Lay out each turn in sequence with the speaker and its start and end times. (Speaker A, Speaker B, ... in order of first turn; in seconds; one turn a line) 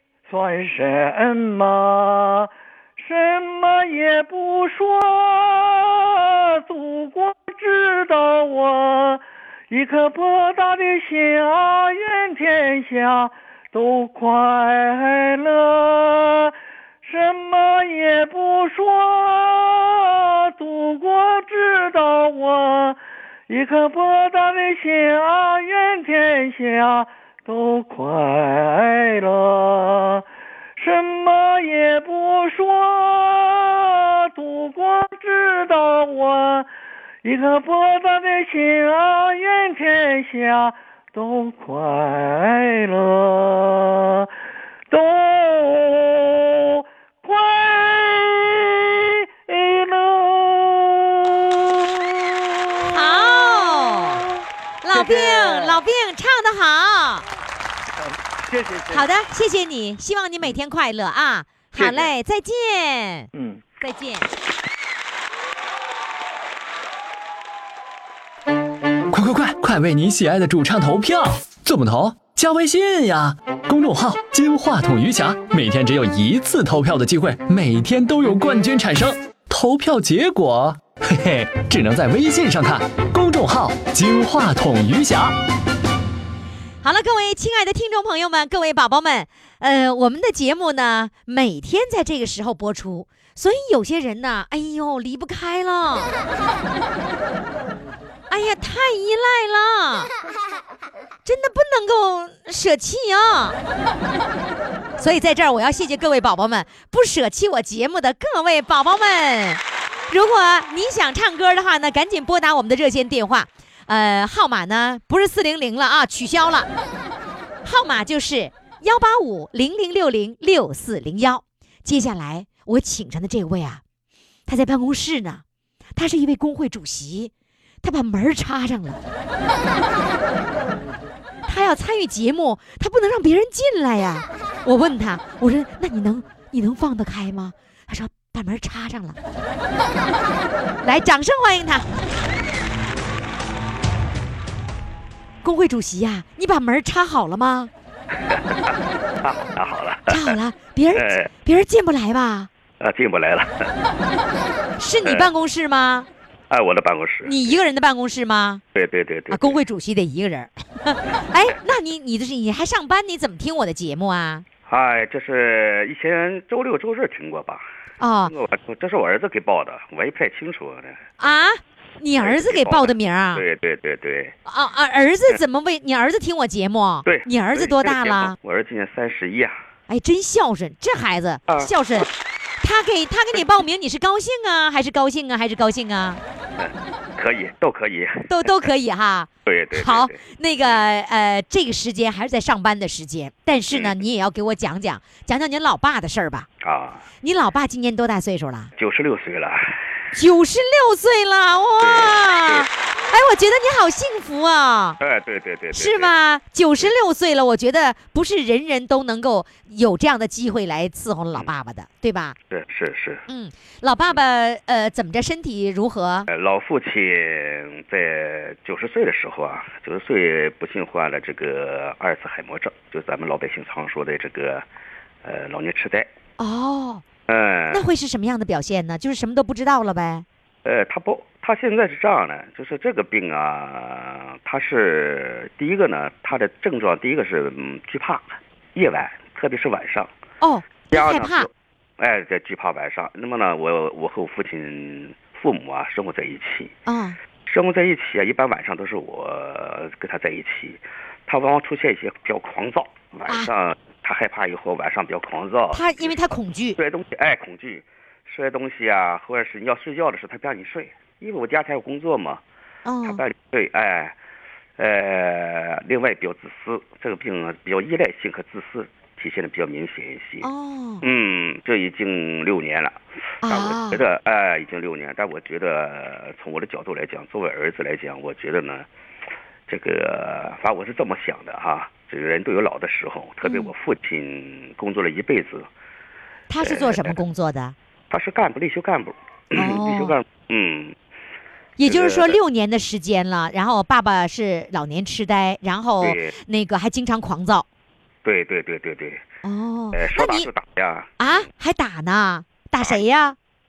Speaker A: 0.3-30.3
Speaker A: 30.8-36.7
Speaker A: 37.2-44.3
Speaker A: 44.9-54.3
Speaker B: 52.9-54.2
Speaker B: 54.8-57.3
Speaker A: 54.9-55.8
Speaker A: 58.0-59.1
Speaker B: 58.9-63.3
Speaker A: 61.8-62.1
Speaker A: 63.3-63.6
Speaker B: 63.8-64.3
Speaker C: 69.1-85.3
Speaker B: 86.8-96.1
Speaker B: 98.3-100.1
Speaker B: 101.2-103.6
Speaker B: 105.0-116.7
Speaker B: 117.7-123.8
Speaker B: 124.5-125.4
Speaker B: 126.0-127.3
Speaker B: 127.8-129.0
Speaker B: 131.5-139.2
Speaker B: 140.8-141.9
Speaker B: 145.4-147.7
Speaker D: 148.2-150.4
Speaker B: 150.1-152.5
Speaker D: 150.9-151.3
Speaker D: 152.8-153.7
Speaker B: 154.8-156.1
Speaker D: 155.0-155.3
Speaker D: 156.5-157.6
Speaker B: 157.2-158.6
Speaker D: 158.7-159.6
Speaker B: 159.3-164.4
Speaker D: 164.7-167.6
Speaker B: 168.0-168.3
Speaker D: 168.2-171.0
Speaker B: 171.2-173.4
Speaker D: 172.2-174.4
Speaker B: 174.5-178.4
Speaker D: 177.1-179.6
Speaker B: 179.9-182.1
Speaker D: 181.5-182.1
Speaker B: 182.6-186.2
Speaker D: 186.6-188.7
Speaker B: 188.3-196.5
Speaker D: 189.4-190.8
Speaker D: 193.7-194.0
Speaker D: 196.6-197.0
Speaker B: 197.2-198.7
Speaker D: 198.8-199.8
Speaker B: 200.1-205.0
Speaker D: 201.8-202.7
Speaker D: 205.0-206.1
Speaker B: 205.7-212.4
Speaker D: 212.5-213.3
Speaker B: 213.3-216.3
Speaker D: 216.3-224.7
Speaker D: 225.2-226.1
Speaker B: 226.4-227.1
Speaker D: 227.3-227.8
Speaker B: 227.7-230.2
Speaker D: 230.7-240.1
Speaker B: 240.4-241.5
Speaker D: 240.9-246.7
Speaker B: 246.9-247.2
Speaker D: 247.5-256.1
Speaker B: 255.7-256.8
Speaker D: 256.8-262.4
Speaker B: 262.9-263.2
Speaker D: 263.1-264.2
Speaker D: 264.8-270.5
Speaker B: 270.4-271.0
Speaker D: 271.0-278.9
Speaker B: 273.4-274.0
Speaker D: 279.7-285.7
Speaker B: 283.4-283.7
Speaker B: 286.5-287.8
Speaker D: 286.6-287.2
Speaker D: 288.1-290.9
Speaker B: 289.5-290.1
Speaker B: 291.8-297.7
Speaker D: 291.9-292.4
Speaker D: 296.0-296.4
Speaker D: 298.2-299.2
Speaker B: 299.4-300.5
Speaker D: 299.9-301.5
Speaker B: 301.2-303.4